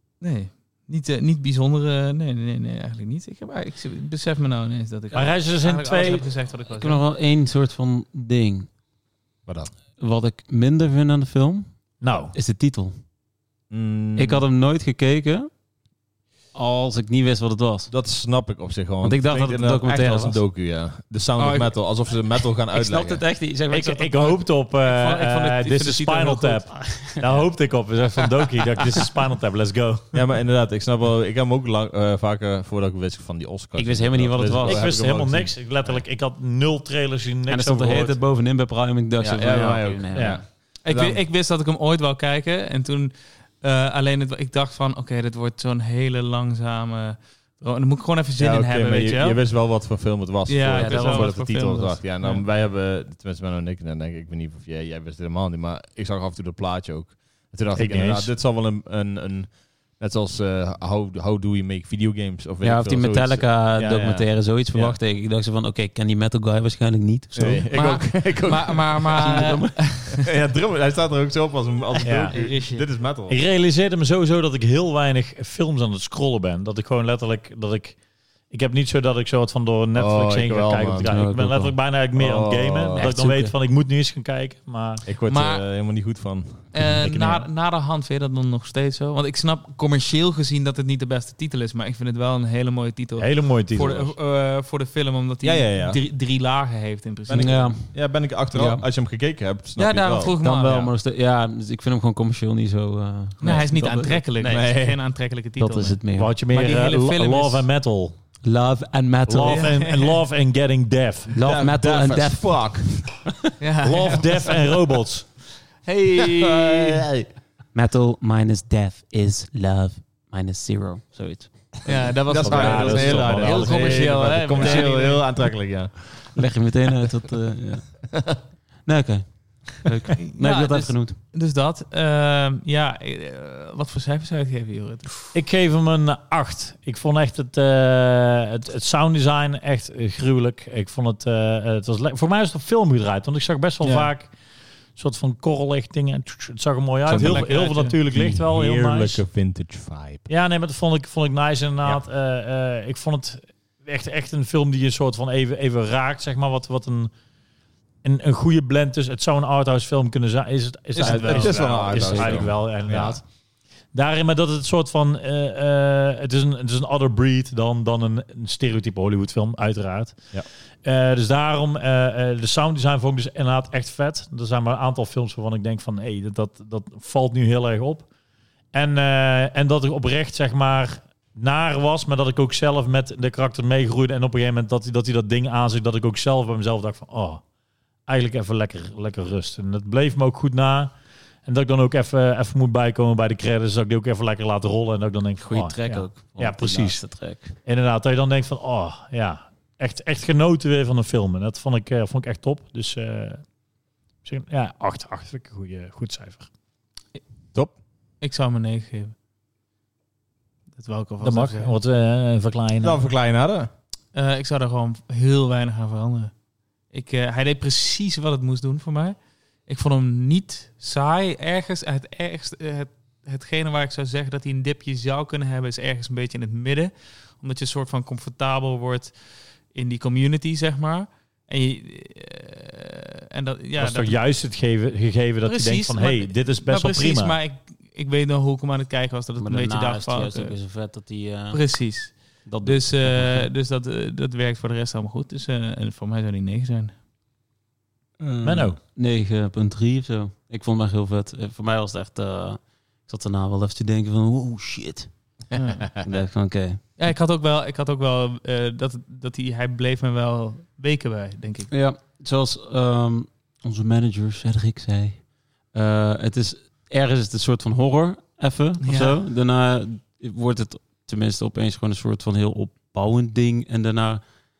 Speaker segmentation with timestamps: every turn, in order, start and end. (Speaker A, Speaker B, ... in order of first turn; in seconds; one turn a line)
Speaker A: 0.2-7.0
Speaker B: 5.1-6.3
Speaker C: 6.7-8.7
Speaker D: 9.5-9.7
Speaker C: 10.0-13.0
Speaker B: 12.0-12.3
Speaker D: 13.7-14.4
Speaker C: 14.2-15.5
Speaker C: 16.5-17.9
Speaker D: 17.9-23.2
Speaker C: 19.0-20.4
Speaker A: 21.4-21.8
Speaker C: 22.7-24.4
Speaker B: 23.7-30.1
Speaker A: 24.8-26.7
Speaker C: 26.8-27.3
Speaker D: 30.1-36.0
Speaker C: 33.8-34.9
Speaker B: 34.6-38.2
Speaker C: 37.5-40.4
Speaker D: 39.2-41.2
Speaker B: 40.1-40.4
Speaker A: 40.8-49.4
Speaker D: 48.4-65.0
Speaker A: 50.5-52.4
Speaker B: 50.9-51.3
Speaker B: 57.8-58.3
Speaker C: 62.6-67.7
Speaker D: 67.3-73.4
Speaker A: 67.7-70.2
Speaker C: 69.2-70.0
Speaker B: 72.0-72.4
Speaker A: 72.3-72.8
Speaker B: 73.3-78.0
Speaker B: 78.5-85.0
Speaker D: 80.0-81.1
Speaker C: 81.1-81.8
Speaker D: 82.1-83.1
Speaker C: 83.0-83.5
Speaker D: 85.0-87.0
Speaker A: 85.3-85.6
Speaker A: 86.7-97.7
Speaker B: 87.0-87.4
Speaker B: 93.2-94.2
Speaker D: 95.4-96.0
Speaker D: 97.3-100.4
Speaker C: 97.3-98.8
Speaker A: 99.8-100.9
Speaker C: 100.4-104.2
Speaker A: 103.4-107.7
Speaker D: 104.4-105.0
Speaker C: 105.6-106.3
Speaker B: 106.2-108.2
Speaker C: 108.4-109.7
Speaker B: 109.3-111.3
Speaker A: 109.5-110.2
Speaker C: 111.3-113.3
Speaker D: 111.4-113.2
Speaker A: 113.6-114.6
Speaker B: 113.8-115.3
Speaker A: 115.8-117.1
Speaker D: 116.2-117.3
Speaker C: 117.7-122.0
Speaker A: 121.8-125.5
Speaker D: 122.3-126.4
Speaker B: 122.4-124.8
Speaker C: 126.3-131.2
Speaker A: 130.3-135.3
Speaker B: 135.3-144.3
Speaker D: 143.8-144.1
Speaker B: 145.0-149.2
Speaker D: 147.1-150.3
Speaker A: 147.1-148.0
Speaker B: 150.3-157.1
Speaker B: 158.0-163.2
Speaker A: 160.9-162.1
Speaker D: 161.0-163.2
Speaker C: 162.0-162.4
Speaker B: 163.9-170.3
Speaker B: 170.8-178.1
Speaker B: 178.7-187.4
Speaker B: 188.1-190.9
Speaker B: 191.4-203.4
Speaker C: 195.4-197.5
Speaker B: 204.2-206.5
Speaker A: 208.2-209.1
Speaker A: 210.8-211.7
Speaker B: 211.2-213.0
Speaker D: 212.8-213.7
Speaker A: 214.1-216.3
Speaker A: 216.9-229.2
Speaker A: 229.7-234.2
Speaker B: 233.8-237.4
Speaker A: 235.4-240.6
Speaker C: 239.4-243.5
Speaker A: 241.5-246.9
Speaker C: 248.2-255.1
Speaker B: 248.4-248.8
Speaker A: 255.5-255.9
Speaker C: 256.0-256.8
Speaker A: 257.0-261.7
Speaker C: 261.7-274.2
Speaker A: 268.8-269.2